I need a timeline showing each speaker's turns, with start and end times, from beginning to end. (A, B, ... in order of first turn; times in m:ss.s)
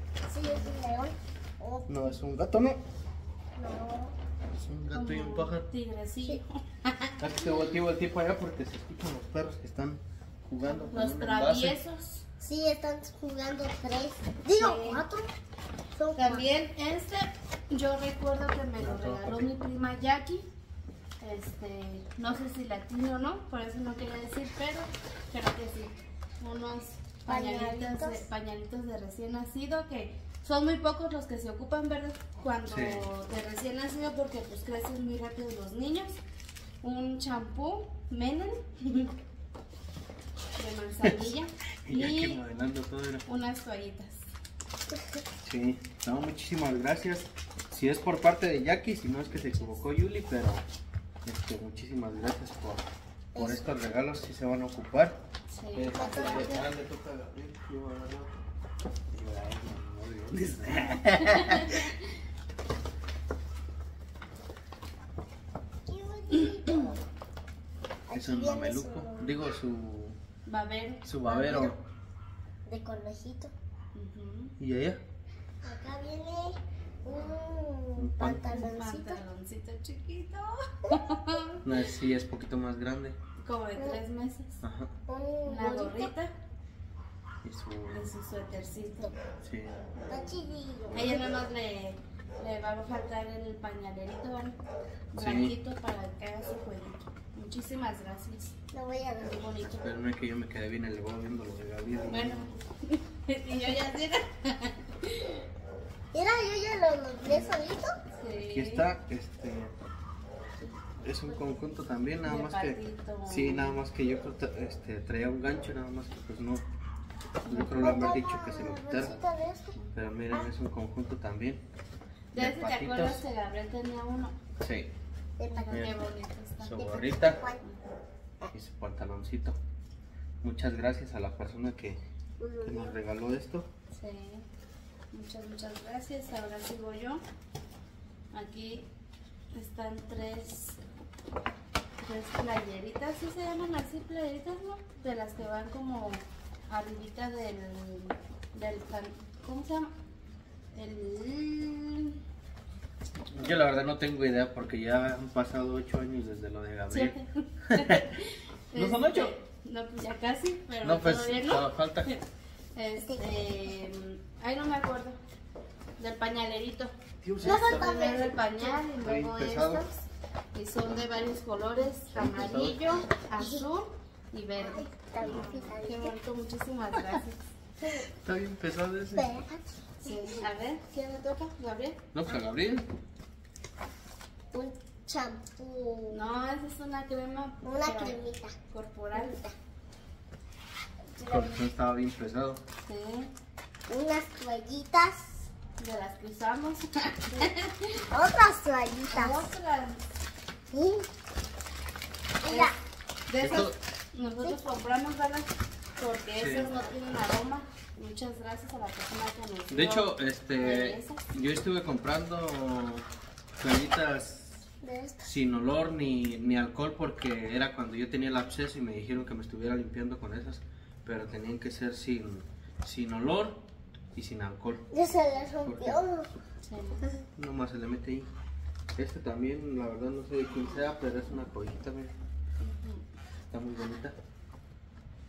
0:00.3-0:01.9 A
0:00.4-0:00.8 B
0:01.9-0:02.8 C
0:03.6-0:04.2 A
0:04.6-0:05.6 C
0:04.9-0:07.2 B
0:07.2-0:11.8 C
0:10.6-0:12.2 B
0:12.4-0:15.3 A
0:14.6-0:15.0 B
0:15.9-0:16.5 A
0:16.2-0:20.5 B
0:18.8-0:19.5 C
0:21.2-0:36.2 B
0:27.3-0:28.2 A
0:32.7-0:33.1 C
0:36.8-0:39.1 B
0:40.6-0:42.4 B
0:41.0-0:41.3 C
0:41.9-0:43.2 C
0:43.3-0:44.3 B
0:45.4-0:50.6 C
0:51.2-0:52.8 C
0:53.3-0:53.7 A
0:53.4-0:55.2 C
0:55.5-0:56.6 B
0:55.8-0:58.4 C
0:55.9-0:56.7 A
0:59.1-1:02.0 C
1:01.3-1:01.9 B
1:05.9-1:07.0 A
1:08.1-1:09.3 A
1:08.1-1:10.2 C
1:10.5-1:11.6 B
1:11.0-1:11.8 C
1:11.3-1:11.7 A
1:12.7-1:13.5 A
1:13.9-1:14.6 B
1:14.6-1:15.0 C
1:15.6-1:19.2 A
1:18.0-1:18.5 C
1:18.5-1:21.8 B
1:21.6-1:23.2 C
1:23.4-1:24.6 B
1:24.6-1:24.9 C
1:25.1-1:26.1 A
1:25.5-1:26.3 B
1:27.4-1:28.0 C
1:27.9-1:29.1 B
1:29.4-1:29.8 C
1:30.0-1:30.4 B
1:30.1-1:31.3 A
1:30.9-1:31.2 C
1:30.9-1:34.6 B
1:35.1-1:38.6 B
1:35.2-1:35.6 C
1:38.7-1:39.4 A
1:39.2-1:39.9 B
1:39.6-1:42.5 C
1:42.1-1:45.4 B
1:46.1-1:48.0 A
1:47.3-1:47.6 C
1:48.1-1:48.9 B
1:48.5-1:49.7 C
1:51.0-1:56.6 C
1:52.2-1:53.8 B
1:57.4-1:58.0 B
1:57.4-1:59.2 C
1:57.8-1:59.8 A
1:59.9-2:01.6 C
2:02.3-2:04.4 B
2:02.4-2:03.2 C
2:04.6-2:04.9 C
2:05.4-2:06.0 A
2:05.5-2:06.9 B
2:06.6-2:07.4 C
2:06.8-2:07.6 A
2:07.6-2:08.0 B
2:08.5-2:09.6 C
2:10.4-2:12.0 C
2:12.4-2:13.0 A
2:12.6-2:13.7 C
2:13.9-2:14.4 B
2:15.1-2:17.2 B
2:18.3-2:18.9 B
2:19.5-2:20.8 B
2:22.0-2:29.9 B
2:30.7-2:32.2 B
2:33.3-2:37.1 C
2:36.9-2:42.2 B
2:37.7-2:38.0 C
2:38.7-2:39.4 C
2:40.8-2:42.1 C
2:42.8-2:45.2 B
2:43.0-2:43.3 A
2:46.0-2:57.4 B
2:47.2-2:48.1 C
2:47.4-2:48.8 A
2:49.0-2:49.9 C
2:50.8-2:51.0 C
2:52.1-2:53.0 C
2:54.6-2:56.1 A
2:58.1-2:59.4 C
2:59.2-3:00.4 A
3:00.0-3:02.0 B
3:02.1-3:02.9 C
3:04.5-3:06.2 A
3:06.1-3:09.4 B
3:07.6-3:08.6 A
3:09.1-3:09.5 A
3:11.2-3:12.6 C
3:11.2-3:11.6 A
3:12.8-3:13.3 B
3:13.9-3:15.5 A
3:15.8-3:18.0 B
3:18.1-3:19.5 A
3:19.1-3:20.0 B
3:20.7-3:21.1 A
3:22.4-3:22.8 A
3:22.4-3:22.7 B
3:23.3-3:31.2 B
3:23.4-3:23.8 C
3:26.4-3:26.7 C
3:29.7-3:33.1 C
3:33.6-3:34.6 C
3:34.8-3:35.3 A
3:35.2-3:43.6 C
3:44.1-3:44.9 C
3:44.9-3:46.3 A
3:45.6-3:46.0 C
3:46.6-3:47.1 B
3:47.4-3:48.3 C
3:49.0-3:52.1 C
3:50.5-3:50.9 B
3:52.6-3:53.0 B
3:53.5-3:54.2 C